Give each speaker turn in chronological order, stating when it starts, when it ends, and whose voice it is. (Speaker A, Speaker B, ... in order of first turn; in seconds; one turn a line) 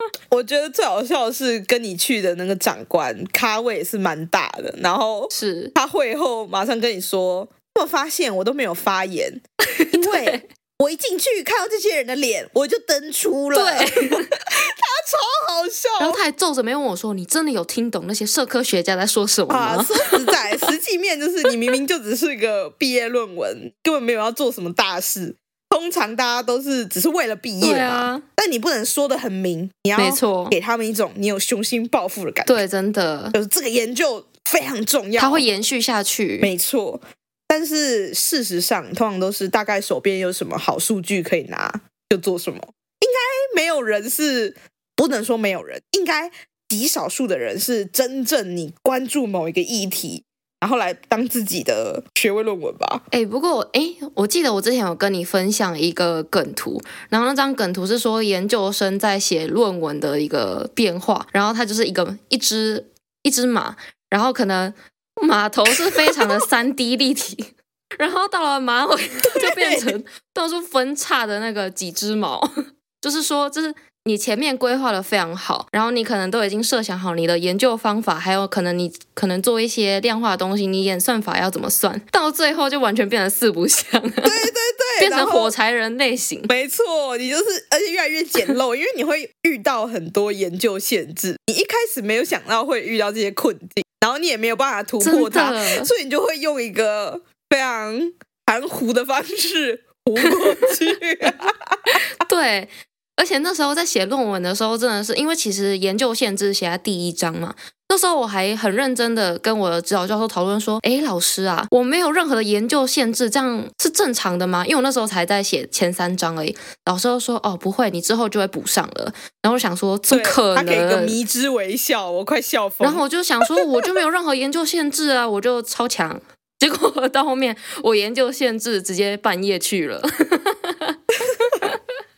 Speaker A: 0.3-16.2
Speaker B: 5.3-5.7
Speaker B: 9.7-10.4
Speaker B: 13.5-14.3
Speaker B: 16.0-20.6
Speaker A: 19.5-32.6
Speaker B: 27.6-28.2
Speaker B: 29.9-30.6
Speaker B: 32.5-33.4
Speaker A: 33.3-35.4
Speaker B: 35.2-36.5
Speaker A: 36.4-53.0
Speaker B: 53.1-72.5
Speaker A: 65.7-66.4
Speaker A: 69.2-69.9
Speaker B: 73.0-86.5
Speaker A: 84.2-85.5
Speaker A: 86.5-101.9
Speaker B: 95.0-95.9
Speaker B: 101.9-121.2
Speaker A: 120.1-123.9
Speaker B: 122.8-131.8